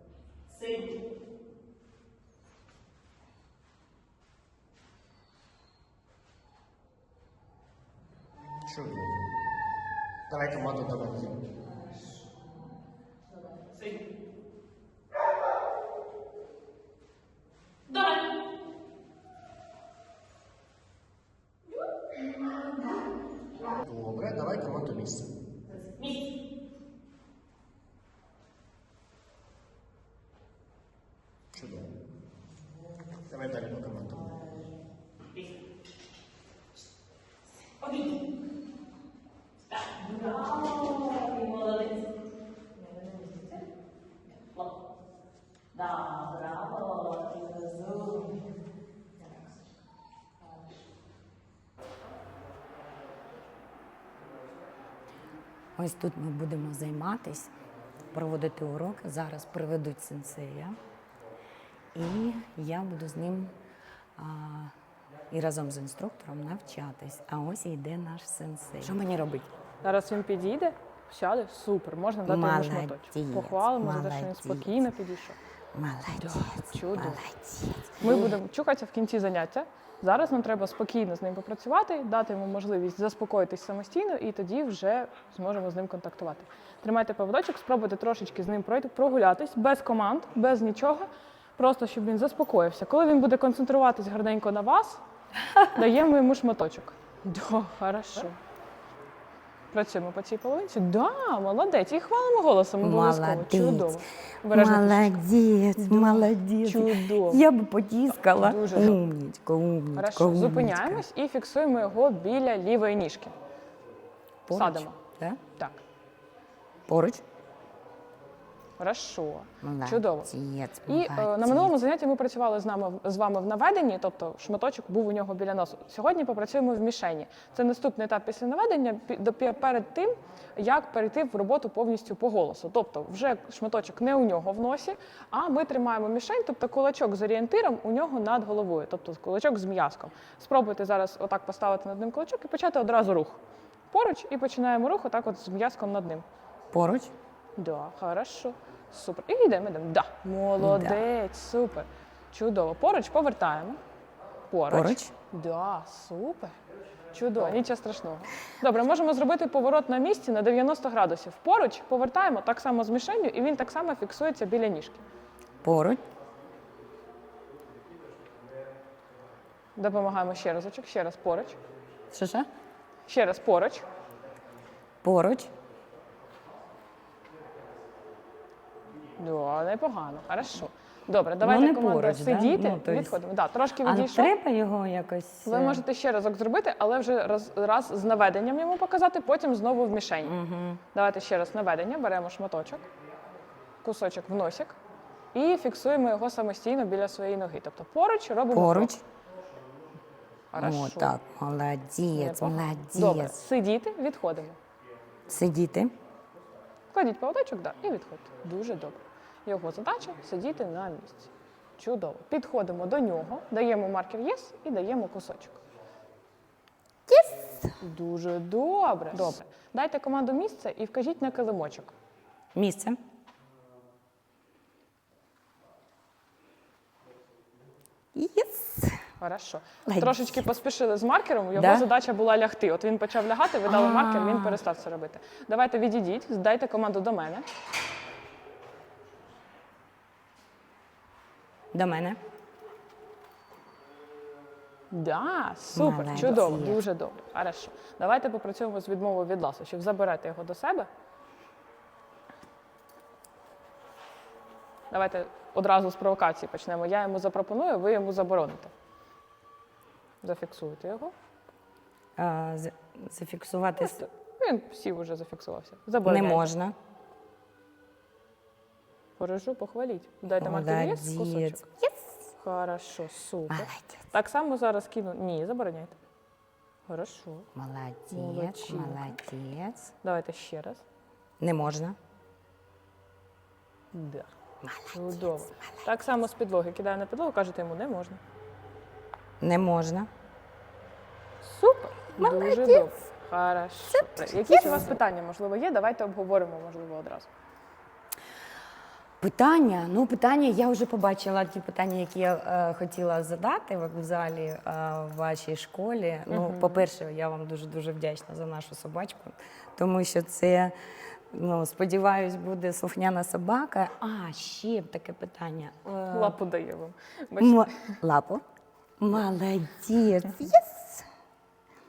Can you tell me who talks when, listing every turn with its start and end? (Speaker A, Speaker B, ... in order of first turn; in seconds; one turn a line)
Speaker A: 0.5-0.9
Speaker B: 8.6-9.2
Speaker B: 10.3-11.4
Speaker A: 17.9-18.2
Speaker B: 23.8-25.3
Speaker B: 31.5-31.9
Speaker B: 33.2-34.3
Speaker A: 37.8-38.1
Speaker A: 39.9-42.0
Speaker A: 42.8-43.6
Speaker A: 45.7-48.4
Speaker C: 55.8-57.5
Speaker C: 58.1-60.7
Speaker C: 61.9-63.5
Speaker C: 64.2-64.7
Speaker C: 65.3-69.5
Speaker A: 69.8-75.4
Speaker C: 72.2-74.9
Speaker C: 75.7-78.4
Speaker A: 76.2-77.2
Speaker A: 78.0-95.0
Speaker A: 95.7-98.4
Speaker A: 99.7-105.2
Speaker C: 102.8-111.0
Speaker A: 105.8-107.4
Speaker A: 108.2-109.0
Speaker A: 110.0-113.3
Speaker C: 114.5-115.4
Speaker A: 114.5-115.0
Speaker C: 116.9-117.2
Speaker A: 118.8-120.3
Speaker C: 119.6-121.8
Speaker A: 120.8-146.2
Speaker C: 146.7-147.1
Speaker A: 147.6-153.8
Speaker C: 150.6-151.0
Speaker A: 154.5-156.6
Speaker C: 154.7-155.1
Speaker A: 157.1-165.0
Speaker C: 165.6-166.0
Speaker A: 169.8-171.6
Speaker C: 172.1-172.5
Speaker A: 173.1-173.9
Speaker C: 175.0-175.5
Speaker A: 179.2-184.3
Speaker C: 181.4-183.2
Speaker C: 183.8-185.8
Speaker A: 185.4-190.3
Speaker C: 190.2-190.8
Speaker A: 190.9-192.9
Speaker A: 193.8-194.8
Speaker A: 195.3-199.0
Speaker C: 198.5-199.0
Speaker A: 200.5-201.2
Speaker C: 200.5-203.4
Speaker A: 202.1-204.6
Speaker C: 205.3-205.9
Speaker A: 206.9-215.6
Speaker C: 217.1-217.6
Speaker A: 217.8-221.9
Speaker C: 222.5-223.0
Speaker C: 228.1-229.0
Speaker A: 229.2-237.4
Speaker C: 229.8-230.5
Speaker C: 231.5-231.9
Speaker C: 233.7-234.6
Speaker C: 241.7-242.2
Speaker A: 244.9-250.9
Speaker C: 245.7-246.8
Speaker A: 254.9-258.7
Speaker A: 260.2-261.1
Speaker C: 262.2-264.0
Speaker A: 263.8-266.5
Speaker C: 266.0-266.8
Speaker A: 269.2-276.0
Speaker C: 270.3-271.6
Speaker C: 273.5-274.0
Speaker A: 276.9-277.5
Speaker C: 277.5-279.9
Speaker A: 278.1-279.2
Speaker A: 280.0-280.8
Speaker C: 281.4-281.9
Speaker A: 283.9-284.3
Speaker C: 284.6-285.7
Speaker A: 284.9-288.2
Speaker C: 289.4-290.1
Speaker A: 291.4-297.3
Speaker C: 292.2-292.9
Speaker C: 293.9-295.0
Speaker C: 299.2-310.7
Speaker A: 306.3-306.9
Speaker C: 311.3-316.4
Speaker A: 316.1-317.9
Speaker C: 317.4-318.4
Speaker C: 319.0-321.1